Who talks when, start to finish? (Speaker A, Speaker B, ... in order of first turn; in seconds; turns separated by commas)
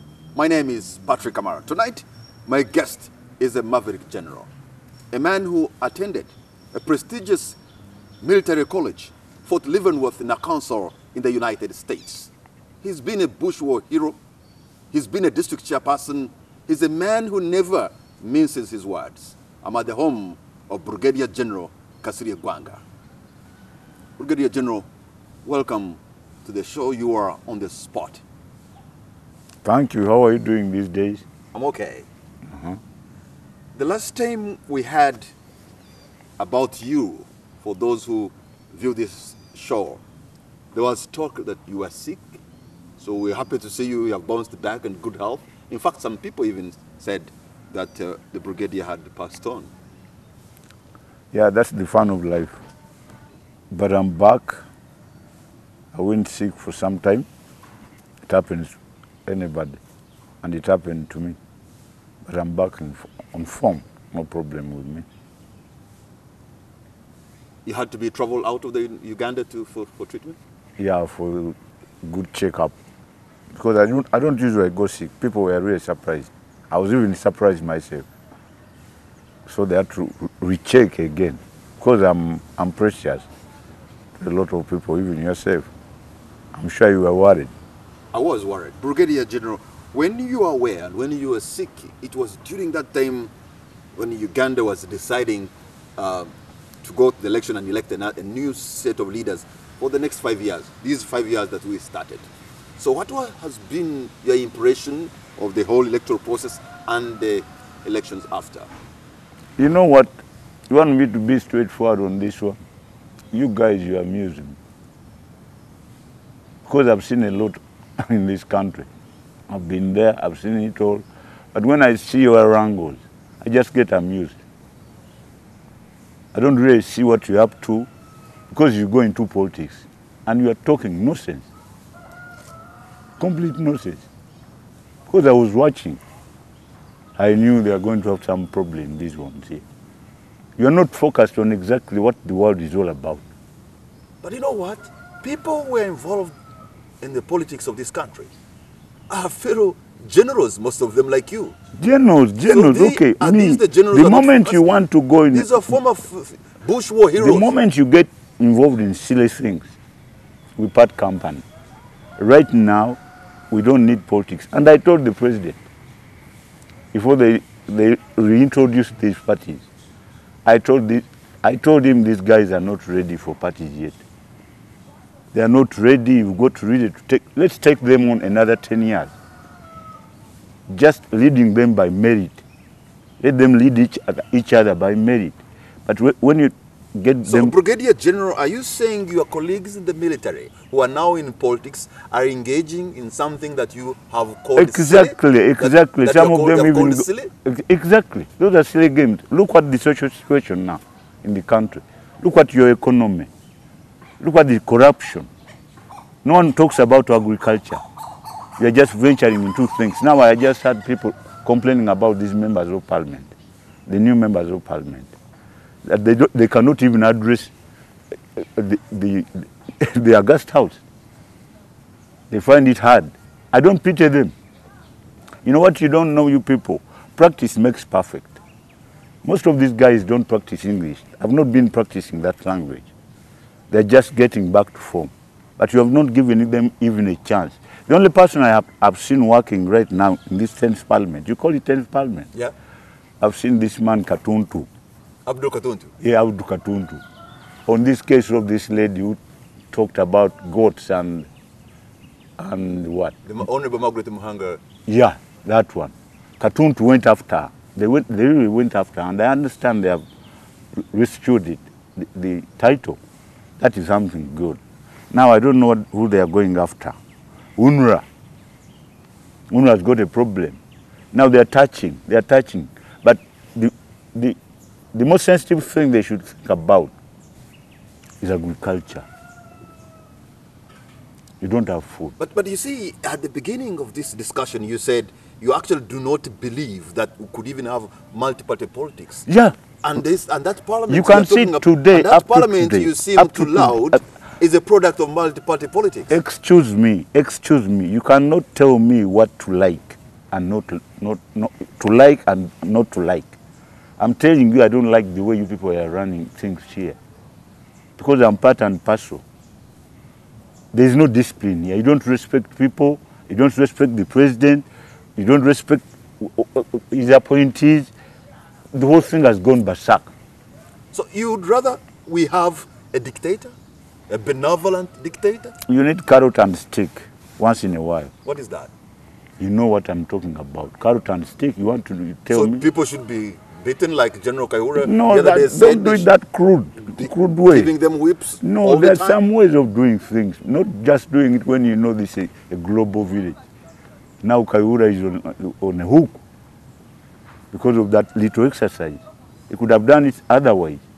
Speaker A: 0.3-4.5, Speaker A: 5.1-7.6, Speaker A: 8.2-12.3, Speaker A: 12.8-14.2, Speaker A: 14.9-22.8, Speaker A: 24.2-24.9, Speaker A: 25.4-28.2, Speaker B: 29.6-31.2, Speaker A: 31.5-32.1, Speaker B: 32.5-32.8, Speaker A: 33.8-35.3, Speaker A: 36.4-40.0, Speaker A: 40.7-42.4, Speaker A: 43.0-49.7, Speaker B: 51.3-52.6, Speaker B: 53.7-54.6, Speaker B: 55.9-57.3, Speaker B: 58.3-59.8, Speaker B: 60.4-61.4, Speaker B: 62.3-65.1, Speaker A: 67.7-70.4, Speaker B: 70.8-72.8, Speaker B: 73.5-78.1, Speaker B: 79.5-83.3, Speaker B: 84.2-85.7, Speaker B: 86.5-87.5, Speaker A: 88.1-93.3, Speaker A: 94.0-96.3, Speaker A: 96.8-108.7, Speaker B: 109.6-110.2, Speaker B: 110.7-112.6, Speaker B: 113.3-114.6, Speaker B: 116.7-118.9, Speaker B: 119.5-124.4, Speaker B: 126.3-127.9, Speaker B: 128.5-131.5, Speaker B: 133.2-134.1, Speaker B: 135.1-136.0, Speaker B: 137.2-139.6, Speaker B: 140.6-143.2, Speaker A: 144.2-146.3, Speaker A: 147.0-148.3, Speaker A: 149.1-151.6, Speaker B: 151.8-155.7, Speaker A: 152.4-154.6, Speaker A: 155.3-157.5, Speaker B: 157.2-159.7, Speaker B: 160.6-161.4, Speaker B: 162.2-163.0, Speaker B: 163.5-165.6, Speaker B: 166.9-169.6, Speaker B: 170.4-174.0, Speaker B: 175.3-179.1, Speaker B: 180.7-182.4, Speaker B: 183.2-187.5, Speaker A: 187.2-197.3, Speaker B: 194.6-203.3, Speaker B: 204.2-205.3, Speaker B: 206.2-207.8, Speaker B: 208.6-213.3, Speaker B: 213.9-215.1, Speaker B: 215.8-217.5, Speaker B: 218.3-220.8, Speaker B: 222.3-224.3, Speaker B: 225.4-228.4, Speaker B: 229.2-232.9, Speaker B: 233.7-242.3, Speaker B: 243.2-244.7, Speaker A: 245.3-245.9, Speaker B: 246.0-247.0, Speaker B: 247.7-249.2, Speaker B: 249.7-251.3, Speaker B: 252.4-253.2, Speaker A: 253.3-254.6, Speaker B: 254.9-260.0, Speaker B: 260.8-263.0, Speaker B: 263.6-264.6, Speaker B: 265.1-267.0, Speaker B: 267.6-268.1, Speaker B: 269.5-270.6, Speaker B: 271.1-274.4, Speaker B: 274.9-276.9, Speaker B: 278.2-279.1, Speaker B: 281.4-282.1, Speaker A: 282.2-289.3, Speaker B: 289.3-289.6, Speaker A: 289.8-296.2, Speaker B: 290.9-294.0, Speaker B: 296.1-303.3, Speaker B: 304.0-307.0, Speaker B: 308.0-309.2, Speaker B: 310.7-317.9, Speaker B: 318.7-320.1, Speaker A: 320.9-323.5, Speaker A: 324.1-325.5, Speaker B: 325.7-328.1, Speaker A: 328.2-328.7, Speaker B: 329.4-332.6, Speaker A: 332.3-336.1, Speaker B: 334.8-337.7, Speaker A: 336.8-339.2, Speaker B: 338.4-343.4, Speaker B: 344.2-346.2, Speaker B: 347.5-350.8